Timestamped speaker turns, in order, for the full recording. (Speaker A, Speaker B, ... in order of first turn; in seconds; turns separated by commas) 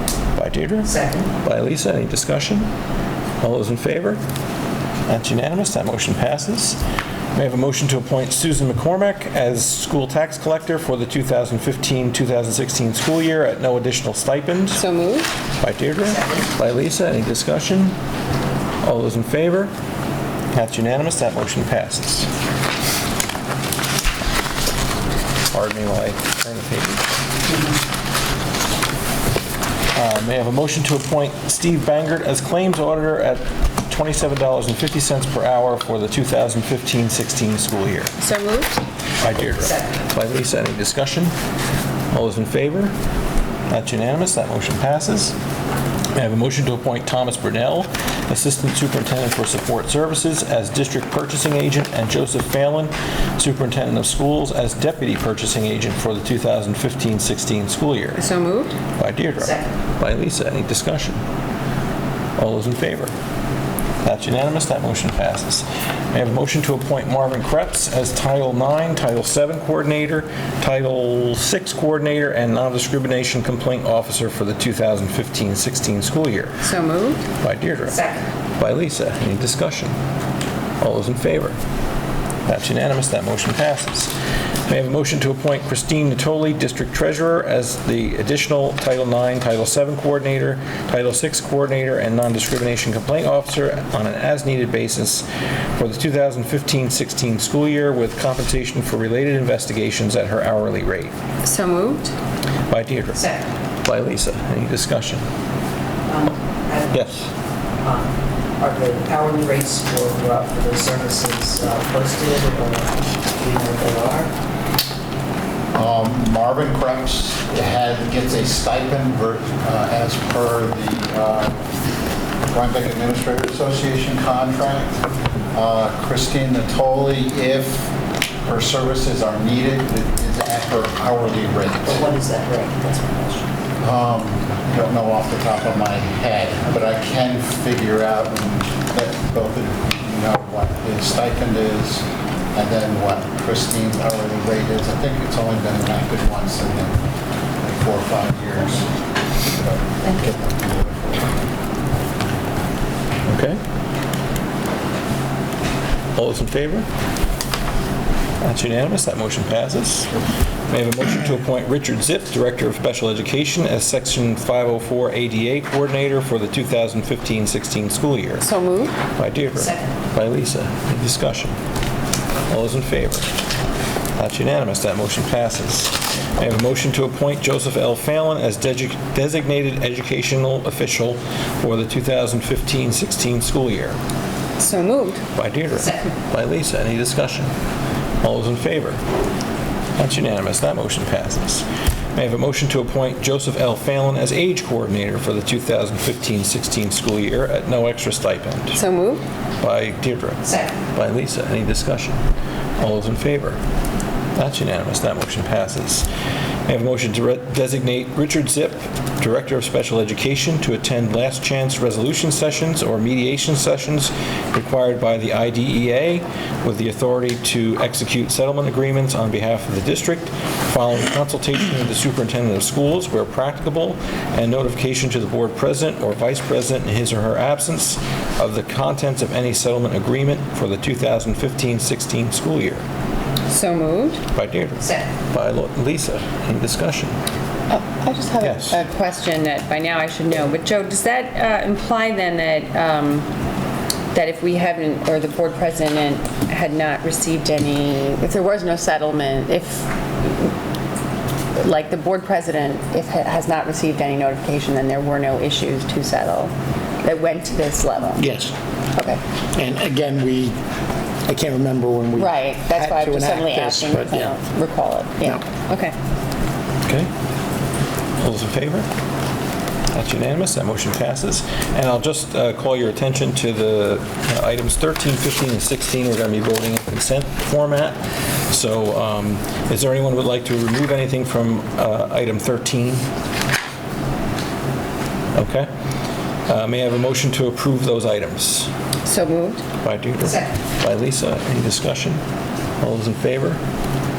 Speaker A: 0.4-2.7, Speaker A: 3.4-4.2, Speaker A: 5.1-6.8, Speaker A: 7.3-14.8, Speaker B: 14.8-15.3, Speaker A: 15.6-17.9, Speaker A: 18.8-19.7, Speaker A: 20.5-22.3, Speaker A: 25.5-27.1, Speaker A: 29.9-38.1, Speaker B: 38.2-38.8, Speaker A: 39.2-41.3, Speaker A: 42.1-42.9, Speaker A: 43.7-45.4, Speaker A: 46.1-58.3, Speaker B: 58.2-58.8, Speaker A: 59.0-61.2, Speaker A: 62.4-63.1, Speaker A: 64.0-76.6, Speaker B: 76.6-77.2, Speaker A: 77.4-80.0, Speaker A: 80.8-81.6, Speaker A: 82.5-84.1, Speaker A: 84.7-101.1, Speaker B: 101.4-102.1, Speaker A: 102.7-103.3, Speaker A: 103.8-105.2, Speaker C: 106.1-107.0, Speaker A: 106.9-107.3, Speaker C: 107.8-114.3, Speaker D: 115.7-121.6, Speaker D: 122.5-127.9, Speaker D: 128.4-132.1, Speaker C: 131.9-133.4, Speaker D: 133.8-147.0, Speaker D: 147.6-151.3, Speaker A: 153.3-153.6, Speaker A: 156.2-156.9, Speaker A: 158.4-160.1, Speaker A: 160.7-168.4, Speaker B: 168.4-168.9, Speaker A: 169.2-171.6, Speaker A: 172.5-173.3, Speaker A: 174.2-184.0, Speaker B: 184.6-185.2, Speaker A: 185.3-187.5, Speaker A: 188.2-189.0, Speaker A: 190.0-198.8, Speaker B: 198.8-199.2, Speaker A: 199.6-202.2, Speaker A: 202.8-203.6, Speaker A: 204.4-206.1, Speaker A: 206.7-232.8, Speaker B: 233.5-234.2, Speaker A: 234.3-237.2, Speaker B: 237.7-243.3, Speaker A: 238.4-238.8, Speaker B: 244.1-250.5, Speaker B: 251.6-256.5, Speaker B: 257.0-258.2, Speaker E: 258.2-258.5, Speaker B: 258.9-259.2, Speaker E: 259.6-260.6, Speaker E: 261.2-264.4, Speaker B: 262.2-265.9, Speaker A: 266.9-267.1, Speaker A: 268.2-268.9, Speaker A: 269.9-283.0, Speaker A: 285.4-285.7, Speaker A: 286.5-288.7, Speaker B: 289.1-289.6, Speaker A: 289.8-292.2, Speaker A: 292.8-293.6